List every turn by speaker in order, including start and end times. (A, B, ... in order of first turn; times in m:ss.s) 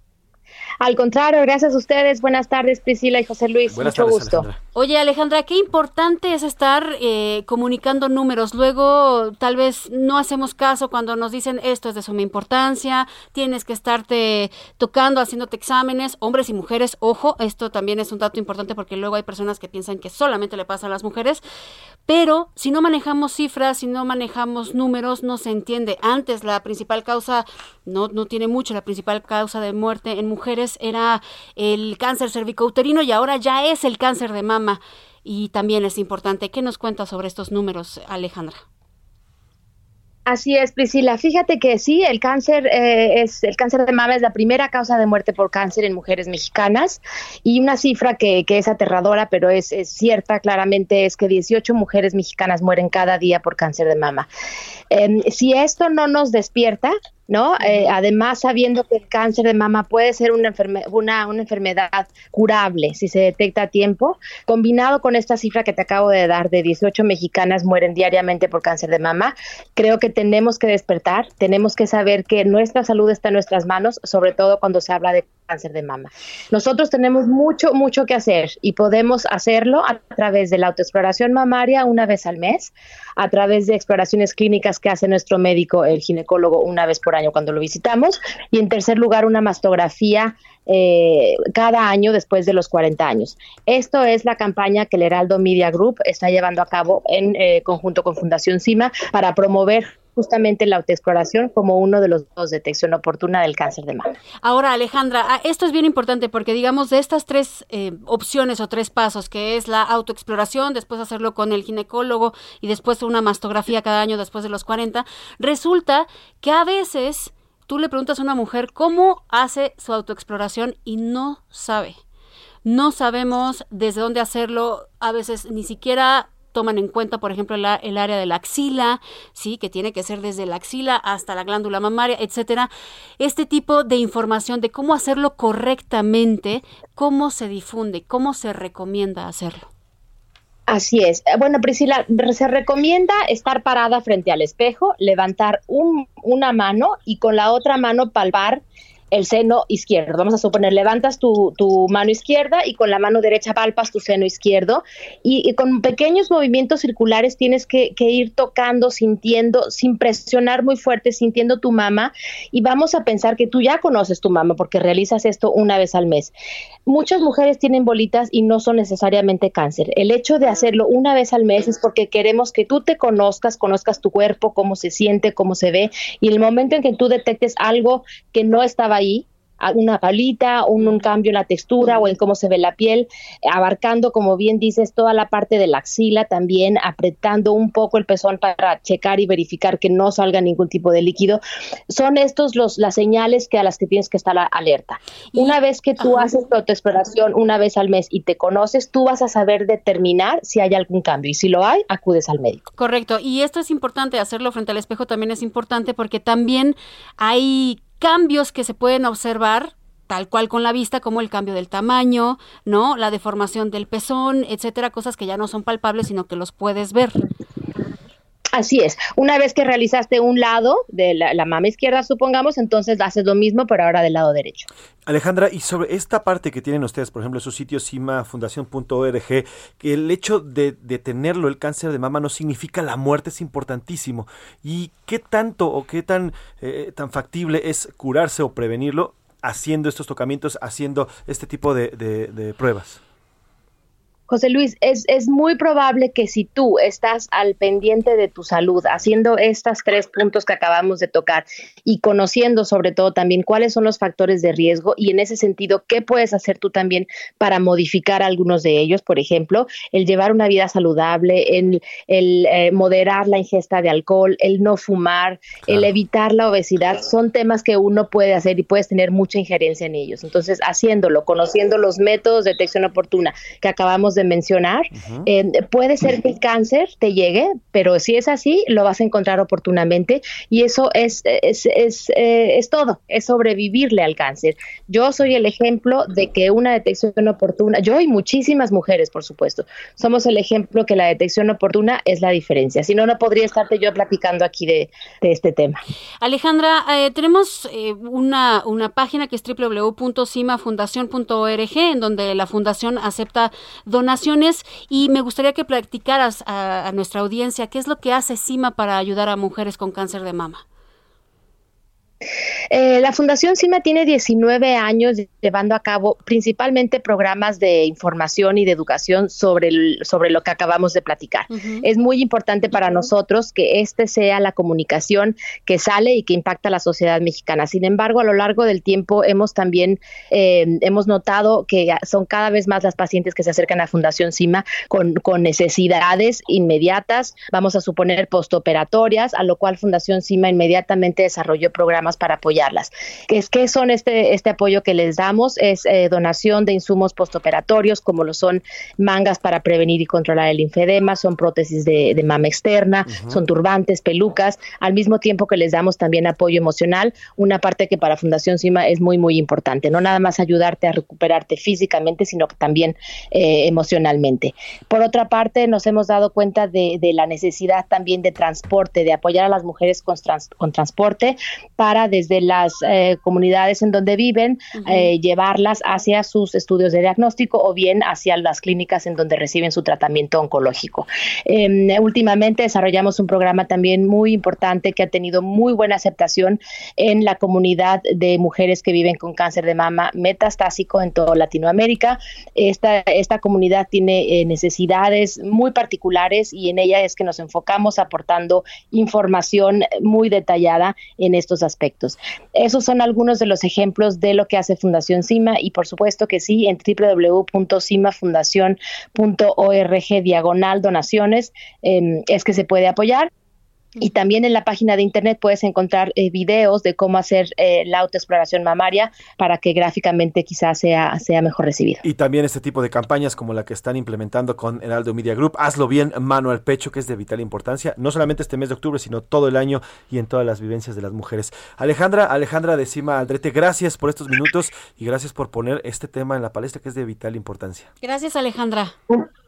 0:00.8-0:04.5 A
0:03.7-0:04.6 B
0:04.7-0:21.4 C
0:22.1-0:38.6 C
0:40.2-0:54.3 A
0:54.9-1:44.1 A
1:44.4-2:02.0 C
2:02.6-2:19.7 C
2:20.7-2:46.3 A
2:46.9-3:22.6 A
3:15.3-3:16.3 C
3:22.8-3:37.2 C
3:38.5-3:44.7 A
3:45.0-4:03.0 B
4:04.3-4:55.8 A
4:35.0-4:35.3 B
4:56.2-5:10.6 C
5:12.7-6:53.3 A
5:21.5-5:21.8 C
5:53.1-5:53.4 B
6:14.8-6:15.1 C
6:54.0-7:02.0 A
7:02.0-7:17.9 B
7:18.0-7:18.9 C